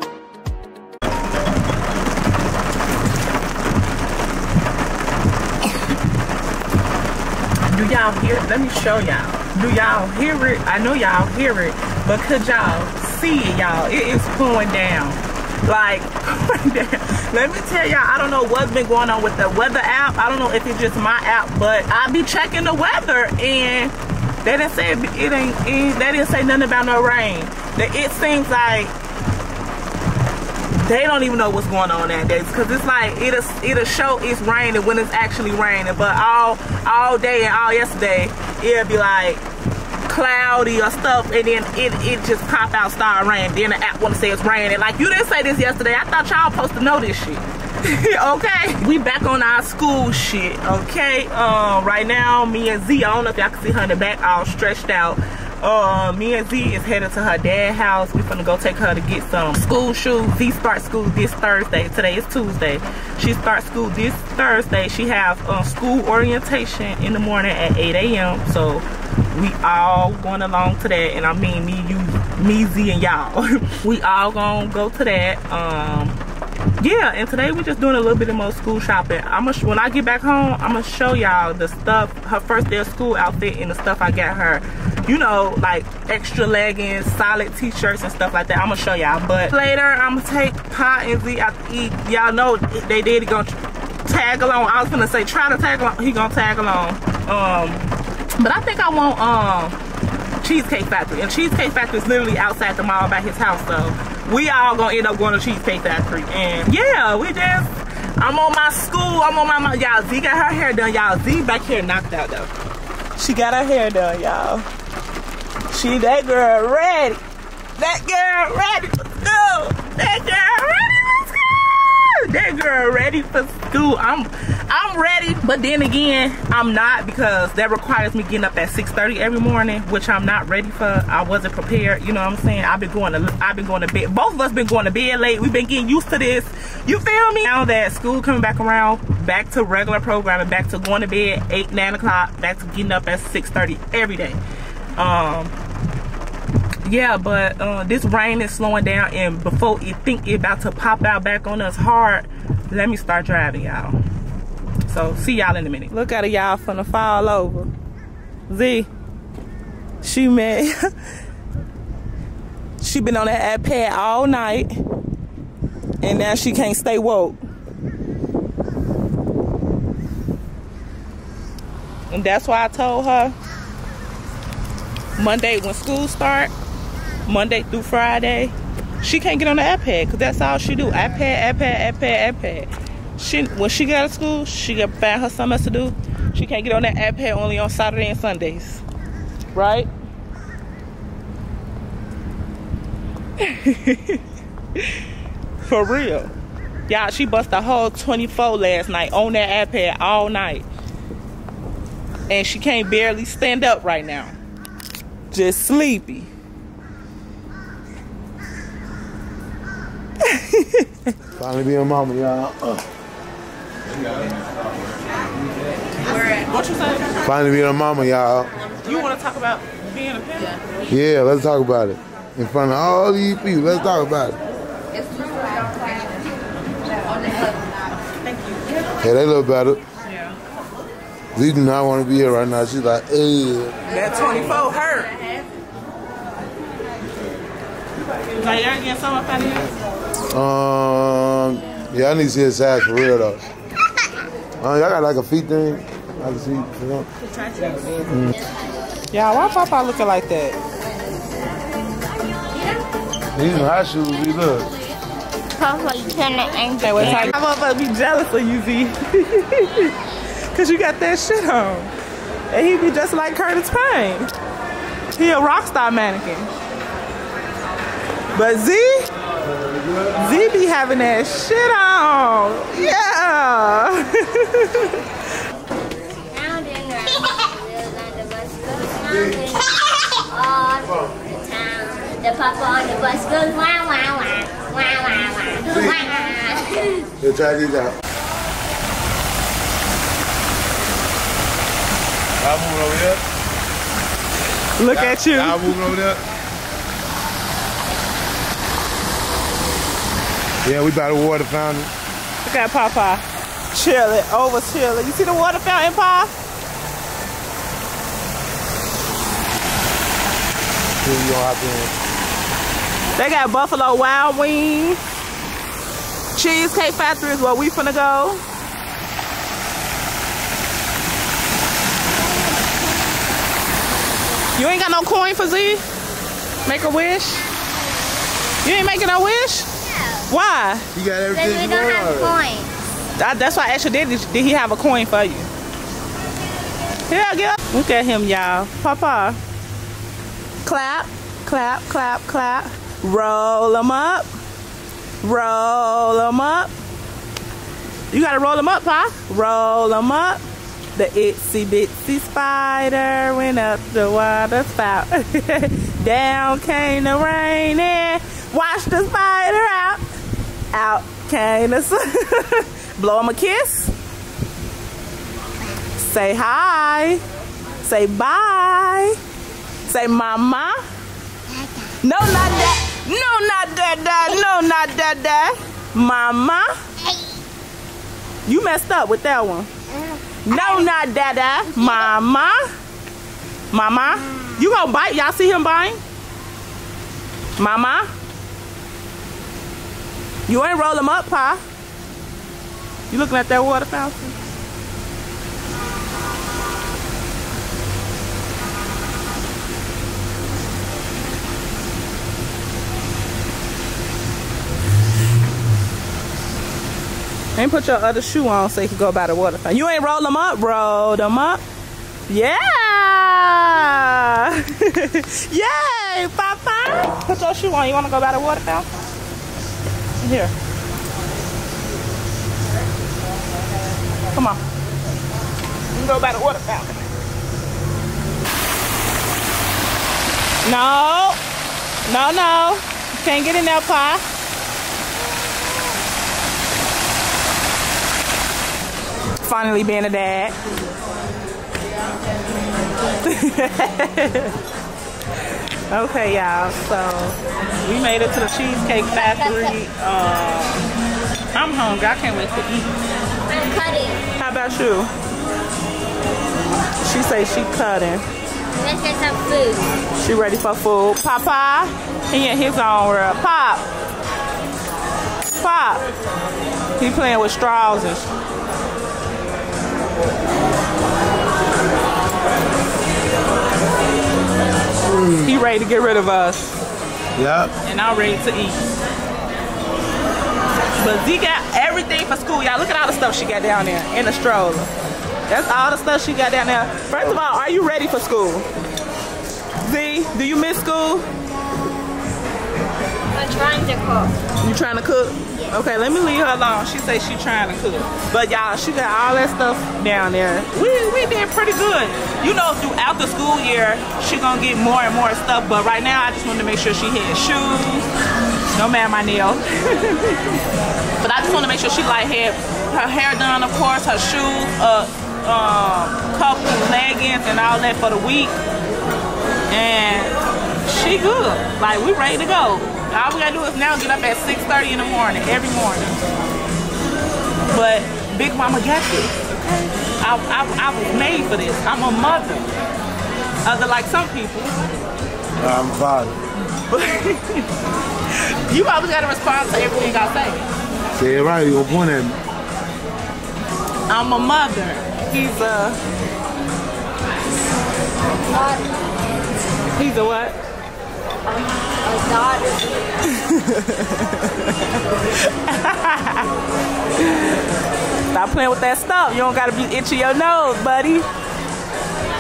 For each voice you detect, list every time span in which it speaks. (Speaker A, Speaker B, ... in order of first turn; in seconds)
Speaker A: 7.7-28.9, 30.8-39.4, 40.1-76.2, 76.8-99.8, 100.4-112.5, 113.2-114.7, 115.7-117.2, 117.8-144.4, 145.0-145.5, 146.8-154.0, 154.9-157.7, 158.5-158.9, 160.0-160.8, 162.8-164.7, 166.0-167.4, 172.1-173.3, 175.2-176.5, 177.3-188.8, 189.5-189.9, 193.4-194.2, 195.6-196.3, 196.9-200.7, 202.3-204.4, 205.3-206.3, 210.2-211.1, 216.3-217.1, 218.8-220.6, 228.3-228.6, 233.9-235.2, 238.3-239.7, 247.5-248.1, 249.1-250.6, 256.8-259.9, 260.5-261.9, 262.5-264.3, 265.1-266.5, 268.3-269.1, 270.1-275.0, 294.8-295.9, 302.4-306.3, 313.1-315.0, 316.4-318.4, 324.6-325.8, 326.6-327.5, 328.6-329.7, 330.3-330.9, 333.2-335.5, 337.1-339.4, 340.6-344.3, 345.2-346.7, 348.1-350.4, 350.9-360.0, 360.7-363.9, 366.0-367.2, 367.8-369.2, 369.9-370.8, 372.0-376.8, 378.5-379.7, 380.4-382.6, 383.7-386.0, 387.6-388.1, 390.5-391.6, 393.1-394.4, 407.6-411.6, 412.3-418.9, 420.2-420.5, 424.3-424.6, 425.9-427.1, 430.6-431.4, 432.1-434.2, 439.4-440.6, 443.2-444.6, 445.9-450.9, 451.5-452.9, 454.4-455.1, 457.0-458.2, 460.2-463.9, 465.6-466.0, 467.0-468.3, 475.4-476.8, 477.9-478.9, 481.0-484.9, 485.5-488.7, 489.8-491.3, 494.6-508.1, 508.8-510.6, 511.2-518.6, 519.7-526.2, 527.7-532.7, 533.6-534.8, 536.7-537.7, 538.6-540.7, 544.1-546.0, 550.0-550.6, 553.3-556.5, 557.2-557.6, 558.3-561.3
Speaker B: 211.3-212.8, 217.2-218.5, 220.9-224.4, 229.0-229.8, 231.3-233.8, 240.3-243.4, 244.6-247.1, 248.1-248.3, 253.3-254.7, 257.0-257.3, 269.6-270.1, 285.7-286.0, 287.2-287.9, 292.4-293.2, 294.9-296.2, 300.6-301.9, 311.0-311.9, 330.9-332.4, 475.1-475.5, 477.4-477.7, 535.6-536.4, 541.2-542.4
Speaker C: 255.6-257.3, 276.2-287.1, 329.8-330.3, 331.3-332.7, 371.5-372.0, 377.0-377.4, 379.9-380.9, 381.8-382.1, 449.1-449.8, 453.5-454.2, 458.8-459.9, 493.3-494.4, 548.4-549.0, 551.5-553.0